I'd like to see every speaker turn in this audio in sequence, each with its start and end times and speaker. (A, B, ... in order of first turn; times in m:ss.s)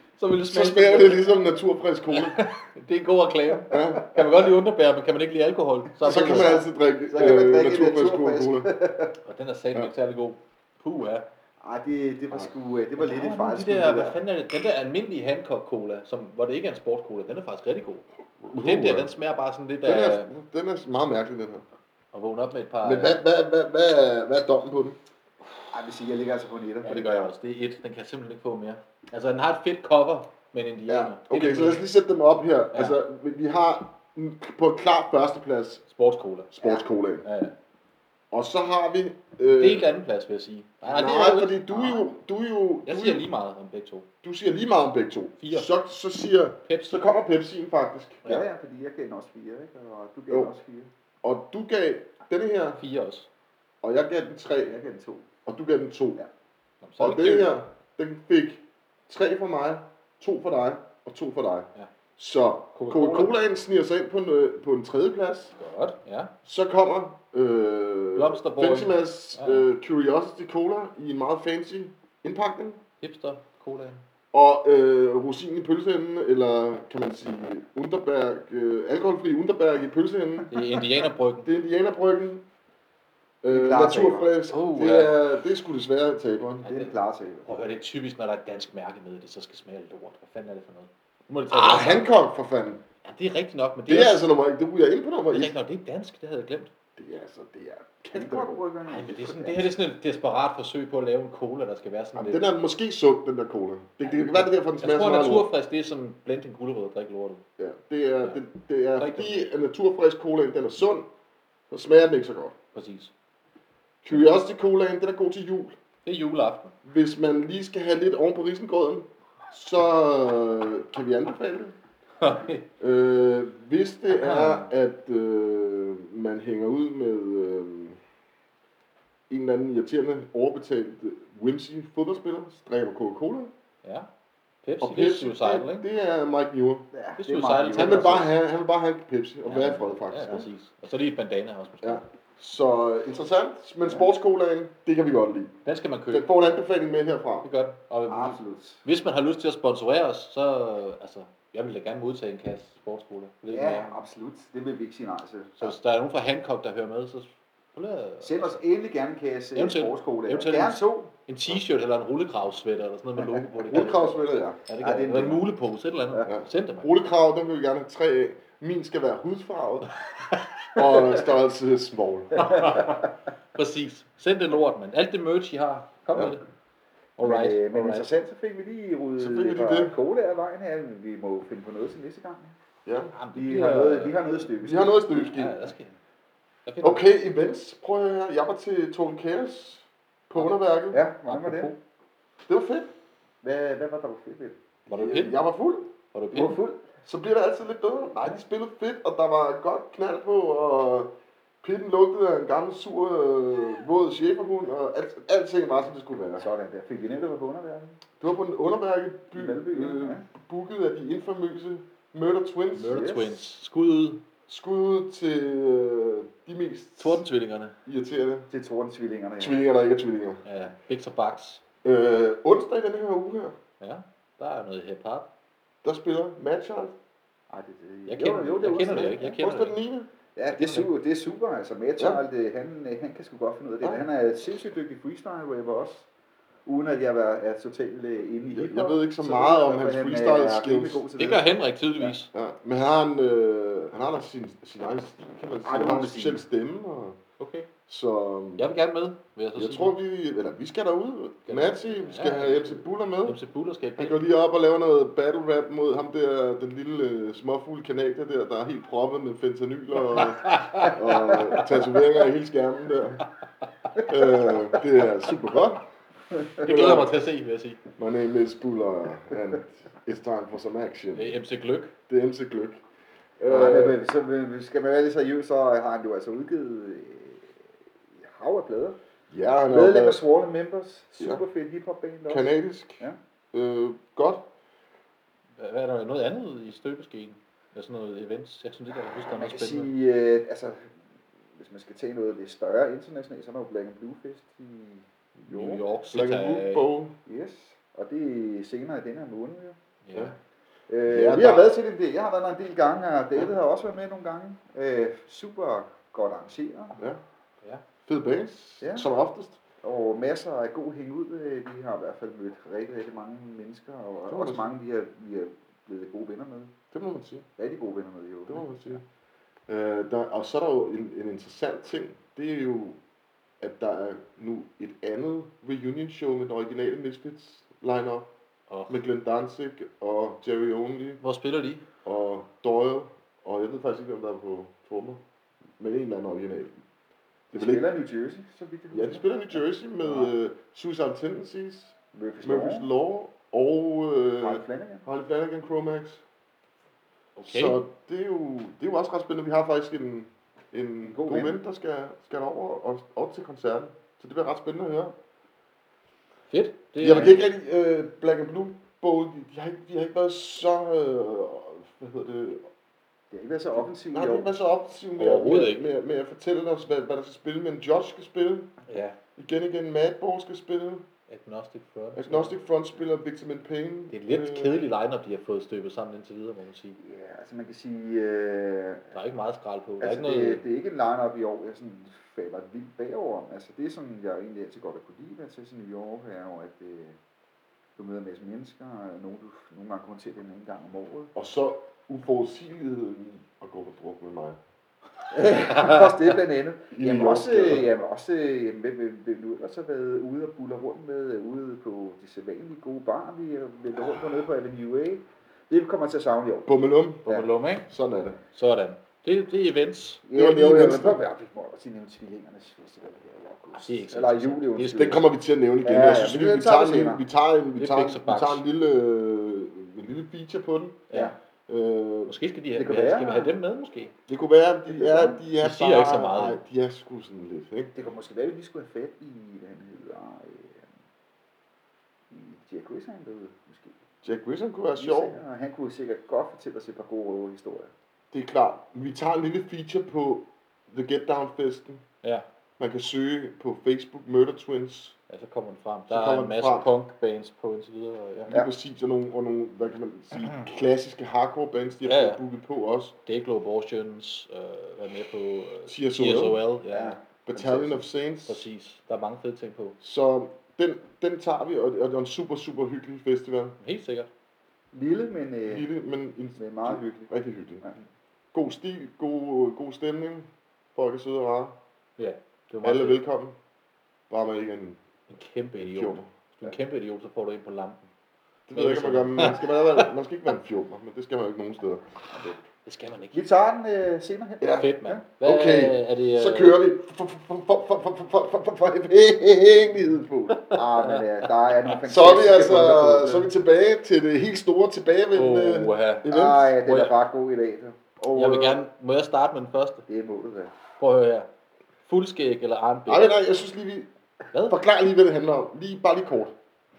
0:00.2-0:01.3 A
0:00.5-0:02.4 B
0:02.1-0:06.6 A
0:03.7-0:04.2 B
0:06.0-0:08.7 B
0:06.0-0:09.2 C
0:09.2-0:11.2 A
0:11.6-0:14.2 C
0:13.0-0:20.3 A
0:18.4-0:19.1 B
0:19.8-0:21.6 B
0:22.1-0:23.2 A
0:22.8-0:25.0 B
0:25.7-0:27.3 C
0:26.8-0:31.8 A
0:30.9-0:35.8 B
0:35.9-0:36.5 A
0:36.5-0:37.2 B
0:37.2-0:37.5 A
0:38.3-0:39.9 B
0:39.5-0:42.0 A
0:40.8-0:43.2 B
0:42.8-0:44.1 A
0:44.2-0:48.2 B
0:45.4-0:45.7 A
0:46.6-0:47.1 A
0:48.2-0:50.9 C
0:51.2-0:52.8 B
0:52.8-0:53.3 A
0:53.8-0:54.8 B
0:54.6-0:55.3 C
0:55.4-0:56.2 B
0:56.8-0:57.5 A
0:57.0-1:05.6 B
1:02.7-1:03.3 A
1:05.6-1:06.3 A
1:06.4-1:12.8 B
1:08.2-1:09.7 A
1:13.0-1:14.0 A
1:14.3-1:20.6 B
1:20.5-1:21.5 A
1:21.4-1:22.4 B
1:23.4-1:26.6 B
1:23.5-1:24.3 C
1:24.5-1:25.2 A
1:26.6-1:32.1 A
1:26.6-1:27.5 C
1:31.5-1:32.8 B
1:33.0-1:34.3 A
1:33.9-1:35.5 B
1:35.3-1:36.7 A
1:37.0-1:38.6 B
1:38.1-1:39.7 C
1:38.9-1:42.4 A
1:42.1-1:45.5 B
1:44.0-1:47.4 A
1:47.6-1:51.1 B
1:49.0-1:49.5 A
1:51.7-1:52.6 B
1:52.7-1:53.1 A
1:54.0-1:55.8 B
1:56.0-1:56.7 A
1:56.8-2:01.7 B
2:02.2-2:02.6 A
2:02.8-2:08.0 B
2:04.1-2:04.7 A
2:09.3-2:13.5 B
2:13.8-2:14.1 A
2:14.6-2:15.8 A
2:14.8-2:16.9 B
2:16.9-2:18.3 C
2:17.2-2:18.3 A
2:17.7-2:20.5 B
2:19.4-2:22.0 A
2:21.8-2:25.6 B
2:25.6-2:26.3 A
2:26.1-2:27.5 B
2:27.4-2:34.0 A
2:28.1-2:28.8 C
2:33.5-2:35.7 C
2:35.6-2:38.6 A
2:38.2-2:41.1 C
2:39.5-2:46.9 A
2:43.7-2:44.6 B
2:44.8-2:45.5 C
2:46.3-2:49.9 B
2:50.8-2:52.7 B
2:52.4-2:56.4 A
2:52.5-2:52.8 C
2:57.2-2:58.1 A
2:57.2-3:02.6 C
2:59.2-2:59.9 B
3:02.8-3:03.1 B
3:03.1-3:04.4 A
3:03.3-3:05.2 C
3:04.6-3:05.7 B
3:05.2-3:06.0 A
3:06.6-3:07.0 A
3:06.8-3:11.0 B
3:10.9-3:11.7 C
3:11.3-3:11.8 A
3:12.5-3:12.9 B
3:13.4-3:14.6 C
3:14.9-3:15.4 A
3:14.9-3:15.9 B
3:16.1-3:16.6 A
3:16.3-3:16.8 C
3:17.0-3:26.4 B
3:26.4-3:28.0 C
3:28.2-3:33.1 B
3:29.3-3:30.2 C
3:32.7-3:34.2 A
3:32.8-3:33.4 C
3:34.5-3:37.2 B
3:37.0-3:37.8 A
3:37.8-3:38.5 B
3:38.5-3:39.6 C
3:39.4-3:40.4 B
3:40.4-3:41.6 A
3:41.8-3:43.6 B
3:43.8-3:45.3 A
3:45.8-3:46.9 B
3:47.5-3:49.4 C
3:48.1-3:49.8 A
3:49.3-3:50.1 B
3:50.4-3:56.1 C
3:50.5-3:50.9 A
3:56.6-4:01.4 C
3:58.5-4:01.0 B
4:01.2-4:02.3 A
4:02.3-4:07.2 B
4:05.6-4:06.4 C
4:07.4-4:07.7 A
4:07.9-4:08.7 B
4:08.6-4:09.9 A
4:09.6-4:13.4 B
4:11.5-4:14.2 A
4:14.0-4:23.2 B
4:20.1-4:21.0 A
4:24.0-4:25.8 B
4:26.3-4:26.6 C
4:26.6-4:27.8 A
4:26.6-4:27.1 B
4:28.0-4:31.4 B
4:31.1-4:31.9 A
4:32.1-4:32.8 B
4:33.4-4:34.0 B
4:33.5-4:37.6 C
4:38.2-4:39.0 C
4:39.3-4:40.2 B
4:39.7-4:43.2 C
4:42.3-4:44.4 B
4:45.6-4:49.9 A
4:49.2-4:51.0 C
4:51.6-4:55.0 C
4:55.5-4:56.8 A
4:55.5-4:57.1 B
4:57.2-4:59.8 C
5:00.0-5:00.4 A
5:00.9-5:07.0 C
5:01.1-5:01.7 B
5:08.1-5:09.6 B
5:08.8-5:09.1 C
5:09.8-5:16.7 C
5:14.3-5:14.7 B
5:16.9-5:17.5 B
5:17.6-5:19.0 C
5:18.5-5:19.0 B
5:19.7-5:23.0 B
5:23.6-5:28.3 B
5:28.7-5:29.0 A
5:28.9-5:31.2 B
5:31.2-5:31.8 A
5:32.0-5:35.2 B
5:35.8-5:36.7 B
5:37.5-5:37.8 B
5:37.5-5:40.3 C
5:38.9-5:46.2 B
5:42.1-5:42.9 C
5:44.4-5:45.0 C
5:47.4-5:47.8 A
5:47.4-5:55.1 B
5:51.0-5:51.6 C
5:56.5-5:57.4 A
5:57.0-6:02.7 B
6:03.3-6:04.5 C
6:04.1-6:08.7 B
6:05.2-6:05.8 A
6:08.9-6:09.2 A
6:09.4-6:11.1 B
6:11.3-6:12.6 A
6:12.1-6:14.8 B
6:14.1-6:17.0 A
6:17.0-6:19.1 C
6:19.1-6:20.6 A
6:20.0-6:27.2 C
6:28.0-6:31.3 C
6:31.3-6:34.6 B
6:35.3-6:47.4 C
6:35.8-6:36.1 A
6:36.9-6:37.9 B
6:46.6-6:47.3 B
6:47.2-6:47.9 A
6:47.9-6:48.4 B
6:48.5-6:50.2 A
6:50.2-6:55.2 C
6:50.3-6:51.2 B
6:53.7-6:55.2 A
6:54.9-7:01.0 B
6:55.8-6:57.2 C
6:57.8-6:58.6 A
7:01.7-7:02.3 B
7:02.3-7:04.1 A
7:02.7-7:03.5 C
7:04.3-7:07.9 B
7:04.9-7:05.4 C
7:05.6-7:06.6 A
7:07.9-7:10.9 C
7:12.3-7:14.0 C
7:14.2-7:15.4 B
7:15.0-7:17.9 C
7:18.3-7:22.0 B
7:22.8-7:25.2 B
7:25.3-7:28.5 A
7:26.1-7:26.9 B
7:28.5-7:33.2 B
7:32.0-7:32.4 A
7:33.2-7:37.2 A
7:35.9-7:36.6 B
7:36.9-7:38.0 C
7:37.4-7:38.6 B
7:38.5-7:40.0 A
7:40.0-7:43.8 B
7:43.8-7:44.3 A
7:44.9-7:45.8 C
7:45.7-7:47.8 B
7:46.6-7:47.3 C
7:48.5-7:51.8 B
7:52.2-7:53.2 A
7:52.8-7:53.6 B
7:54.3-7:55.0 B
7:55.3-7:58.0 A
7:55.8-7:56.3 B
7:58.7-8:02.0 B
7:58.7-8:00.1 A
8:02.8-8:03.4 A
8:03.3-8:05.2 C
8:04.6-8:10.6 B
8:04.7-8:06.8 A
8:10.5-8:11.9 A
8:10.7-8:13.5 C
8:12.1-8:16.7 B
8:15.3-8:17.1 A
8:16.2-8:18.8 C
8:18.3-8:20.0 A
8:20.1-8:20.7 C
8:21.0-8:21.5 A
8:22.0-8:23.4 A
8:23.1-8:26.6 B
8:24.5-8:24.8 A